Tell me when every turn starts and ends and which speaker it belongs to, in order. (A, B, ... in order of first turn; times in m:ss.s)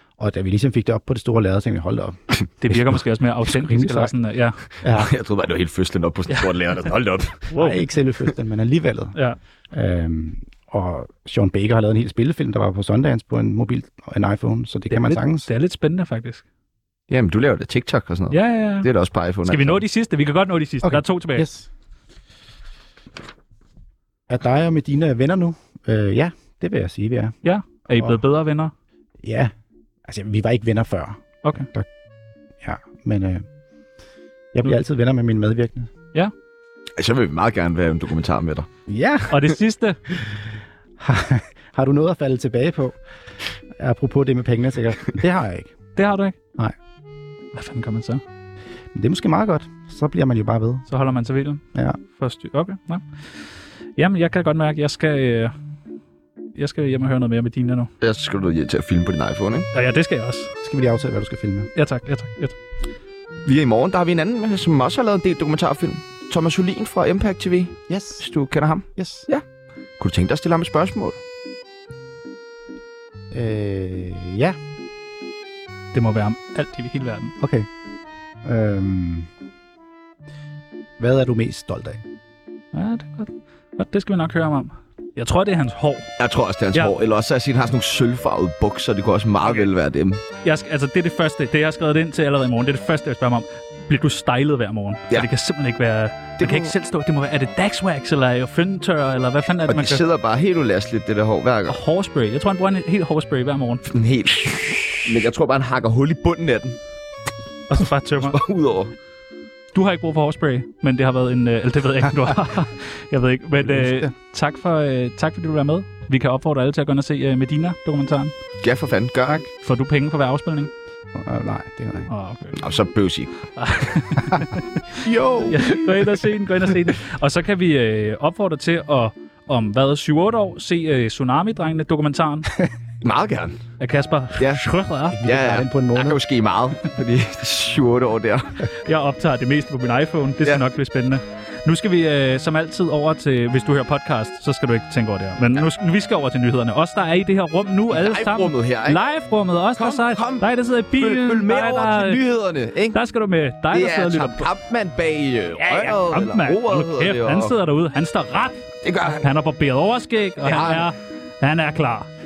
0:00.2-0:02.2 A
0:02.6-0:04.6 B
0:03.5-0:04.1 A
0:04.8-0:05.1 A
0:04.8-0:07.5 C
0:07.5-0:07.8 B
0:07.5-0:09.1 A
0:09.7-0:15.5 A
0:14.9-0:16.4 B
0:17.1-0:19.8 C
0:18.3-0:18.9 B
0:19.4-0:21.5 B
0:20.8-0:21.7 A
0:24.3-0:27.3 A
0:27.4-0:28.7 B
0:27.9-0:28.2 A
0:29.2-0:29.5 A
0:30.0-0:31.9 A
0:32.6-0:33.5 A
0:34.5-0:35.9 A
0:37.0-0:38.7 C
0:38.9-0:39.5 A
0:39.3-0:40.0 B
0:41.0-0:43.0 A
0:43.7-0:45.8 A
0:46.0-0:46.4 B
0:47.5-0:48.2 B
0:48.9-0:50.8 A
0:50.9-0:53.0 B
0:54.0-0:55.5 B
0:56.6-0:57.9 B
0:58.0-0:59.7 C
0:59.7-1:00.5 B
1:00.6-1:01.7 A
1:01.8-1:02.6 B
1:03.4-1:09.4 C
1:07.9-1:08.2 A
1:09.0-1:09.3 A
1:10.0-1:11.2 C
1:13.3-1:14.6 A
1:15.9-1:17.3 B
1:17.4-1:17.7 A
1:18.4-1:19.3 A
1:21.0-1:22.0 A
1:22.7-1:26.1 B
1:26.2-1:30.2 C
1:30.4-1:40.0 B
1:36.4-1:36.7 C
1:39.7-1:41.8 C
1:41.7-1:43.8 B
1:43.9-1:46.8 C
1:47.7-1:48.4 B
1:48.2-1:48.9 C
1:49.7-1:58.3 B
1:53.6-1:54.1 A
1:58.6-1:59.4 C
1:59.4-2:00.7 B
2:01.1-2:02.1 A
2:02.1-2:02.6 B
2:02.6-2:03.5 C
2:03.6-2:05.0 B
2:05.0-2:06.2 C
2:05.5-2:12.5 B
2:13.0-2:13.6 C
2:13.8-2:15.2 B
2:14.4-2:14.6 C
2:15.1-2:16.2 A
2:15.2-2:18.7 C
2:18.8-2:32.2 B
2:27.9-2:29.0 C
2:29.8-2:33.0 C
2:32.9-2:34.5 B
2:33.7-2:37.5 C
2:35.6-2:38.6 B
2:38.8-2:39.3 C
2:39.2-2:42.1 B
2:40.4-2:40.9 C